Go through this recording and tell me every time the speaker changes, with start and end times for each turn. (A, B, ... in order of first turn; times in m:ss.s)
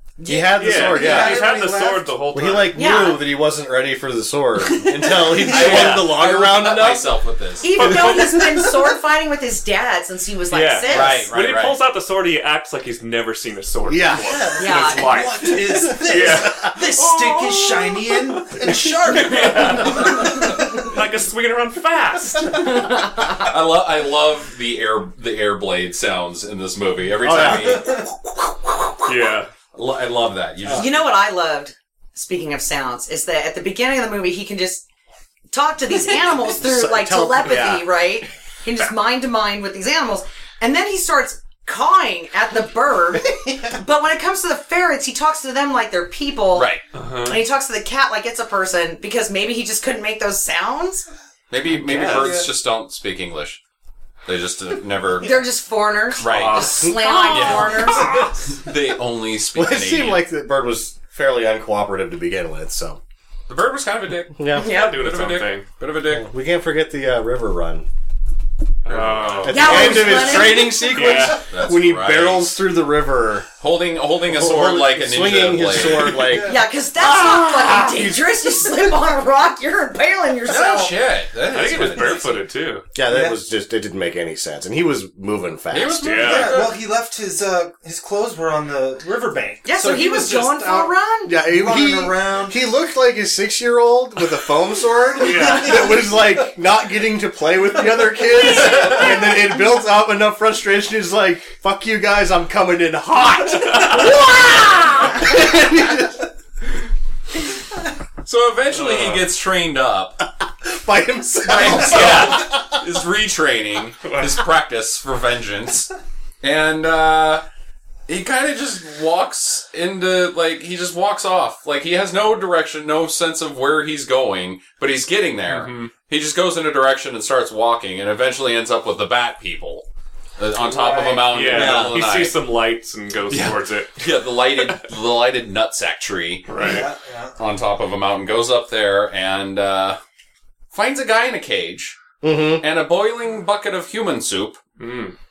0:00.2-0:00.8 A
0:00.2-0:01.5 B
0:00.6-0:03.0 C
0:00.8-0:02.2 D
0:02.3-0:07.1 B
0:02.7-0:03.2 A
0:05.0-0:08.1 E
0:05.6-0:06.1 C
0:07.6-0:11.3 A
0:07.8-0:08.7 C
0:10.5-0:16.8 C
0:10.9-0:11.8 E
0:13.9-0:14.8 B
0:14.2-0:20.7 D
0:14.6-0:15.3 A
0:16.2-0:16.7 B
0:18.6-0:22.9 C
0:22.6-0:23.5 A
0:23.4-0:28.1 E
0:27.2-0:27.9 B
0:27.7-0:28.0 D
0:28.6-0:29.1 E
0:29.0-0:29.5 C
0:29.7-0:31.0 E
0:30.8-0:34.8 A
0:35.5-0:51.1 A
0:36.6-0:37.8 B
0:46.5-0:46.8 E
0:46.9-0:47.4 C
0:51.5-0:53.6 E
0:51.7-0:52.4 C
0:52.0-0:52.5 D
0:54.3-0:55.4 E
0:55.2-0:58.3 A
0:56.2-1:00.2 E
0:56.2-0:58.0 C
0:59.5-1:03.0 B
1:03.5-1:06.3 E
1:04.4-1:04.7 B
1:04.6-1:05.0 A
1:04.6-1:05.6 C
1:06.1-1:07.9 B
1:08.9-1:10.2 E
1:08.9-1:11.4 C
1:09.4-1:13.5 B
1:09.5-1:10.9 A
1:11.5-1:12.6 E
1:13.6-1:16.4 E
1:14.3-1:16.6 B
1:16.2-1:16.6 D
1:16.4-1:20.9 A
1:20.5-1:22.4 E
1:21.5-1:22.8 C
1:23.0-1:26.3 B
1:23.1-1:23.4 D
1:25.7-1:26.8 E
1:26.0-1:26.6 C
1:26.2-1:32.6 D
1:29.6-1:31.4 A
1:31.3-1:46.2 B
1:35.2-1:35.9 C
1:48.2-1:50.2 E
1:48.7-1:49.2 C
1:50.6-1:52.8 B
1:51.5-1:55.9 E
1:56.4-1:57.4 E
1:58.1-2:09.9 E
2:05.5-2:05.9 C
2:10.4-2:12.4 E
2:10.6-2:11.6 D
2:11.2-2:14.8 C
2:11.5-2:12.0 B
2:13.3-2:16.8 E
2:16.5-2:16.8 C
2:16.5-2:17.4 D
2:17.4-2:20.0 E
2:20.7-2:22.0 E
2:22.2-2:22.6 B
2:22.6-2:24.6 E
2:24.8-2:25.2 C